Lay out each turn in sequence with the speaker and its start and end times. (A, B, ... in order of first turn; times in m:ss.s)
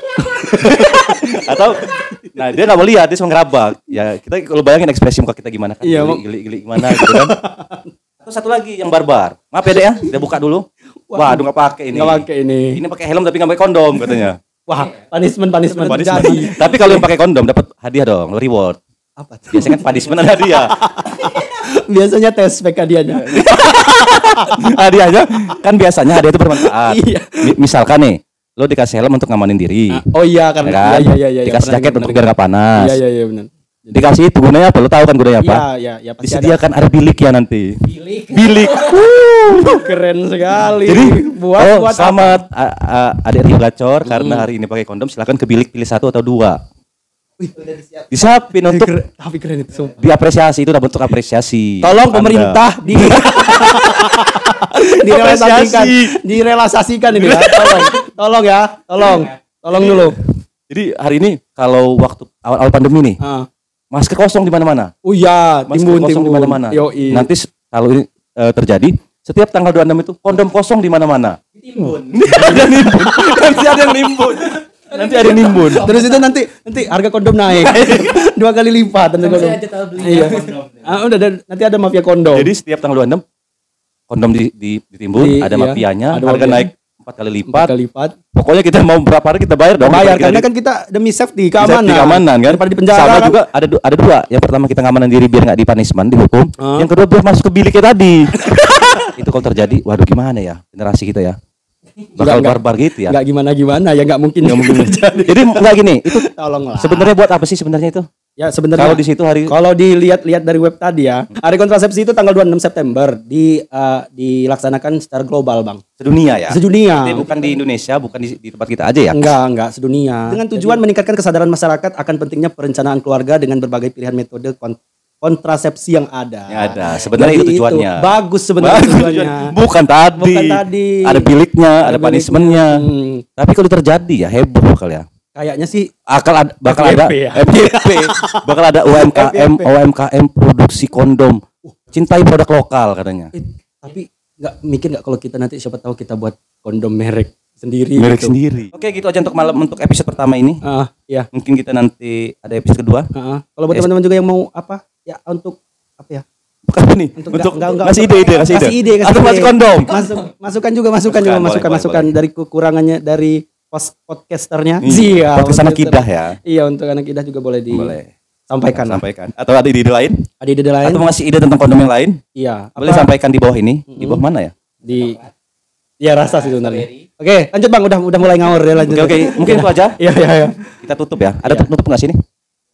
0:00.2-0:02.2 A
0:00.4-0:07.4 B
0:05.8-0:06.2 A
0:06.8-0:07.9 A
0:08.2-0:14.4 B
0:11.1-0:12.8 A
0:14.7-0:17.0 A
0:15.8-0:18.8 B
0:19.2-0:24.5 A
0:19.5-0:20.8 B
0:23.2-0:30.0 B
0:26.6-0:27.4 A
0:29.9-0:32.2 A
0:30.6-0:33.0 B
0:32.8-0:34.0 A
0:33.9-0:35.6 B
0:35.4-0:36.6 A
0:36.2-0:39.9 B
0:39.6-0:42.4 A
0:40.7-0:46.6 B
0:44.0-0:44.5 A
0:47.4-0:47.8 A
0:48.1-0:48.9 B
0:48.7-0:50.0 A
0:50.0-0:56.2 B
0:51.8-1:00.2 A
0:57.1-0:58.0 B
0:59.0-1:00.1 B
1:00.7-1:03.2 B
1:03.2-1:03.5 A
1:03.9-1:04.9 B
1:05.1-1:07.3 A
1:05.7-1:15.9 B
1:11.8-1:13.4 A
1:15.7-1:22.5 A
1:22.3-1:23.2 B
1:24.1-1:27.7 B
1:25.2-1:26.7 A
1:27.5-1:28.2 A
1:28.4-1:30.4 B
1:29.8-1:33.4 A
1:31.6-1:41.4 B
1:36.6-1:36.9 A
1:38.4-1:39.1 A
1:42.2-1:43.2 B
1:42.2-1:47.1 A
1:44.4-1:48.1 B
1:48.4-1:55.8 A
1:48.8-1:49.5 B
1:56.0-1:59.4 B
1:56.5-1:57.2 A
1:59.1-2:09.5 A
2:00.4-2:00.8 B
2:06.5-2:08.1 B
2:08.6-2:12.8 B
2:10.2-2:11.3 A
2:11.8-2:13.2 A
2:13.4-2:15.0 B
2:15.4-2:15.9 A
2:16.1-2:21.4 B
2:16.6-2:18.4 A
2:18.9-2:19.7 A
2:21.9-2:23.3 B
2:23.4-2:28.4 A
2:28.0-2:30.6 B
2:30.6-2:31.3 A
2:31.3-2:33.1 B
2:33.2-2:36.2 A
2:36.7-2:40.1 B
2:37.2-2:48.0 A
2:41.1-2:42.1 B
2:44.8-2:46.4 B
2:47.7-2:48.1 B
2:48.5-2:49.0 A
2:48.7-2:50.2 B
2:50.4-2:51.0 A
2:50.8-2:52.2 B
2:52.4-2:53.1 A
2:52.8-2:54.5 B
2:53.9-2:54.2 A
2:54.8-2:55.2 A
2:56.0-3:00.7 A
2:58.9-3:00.0 B
3:00.8-3:02.2 B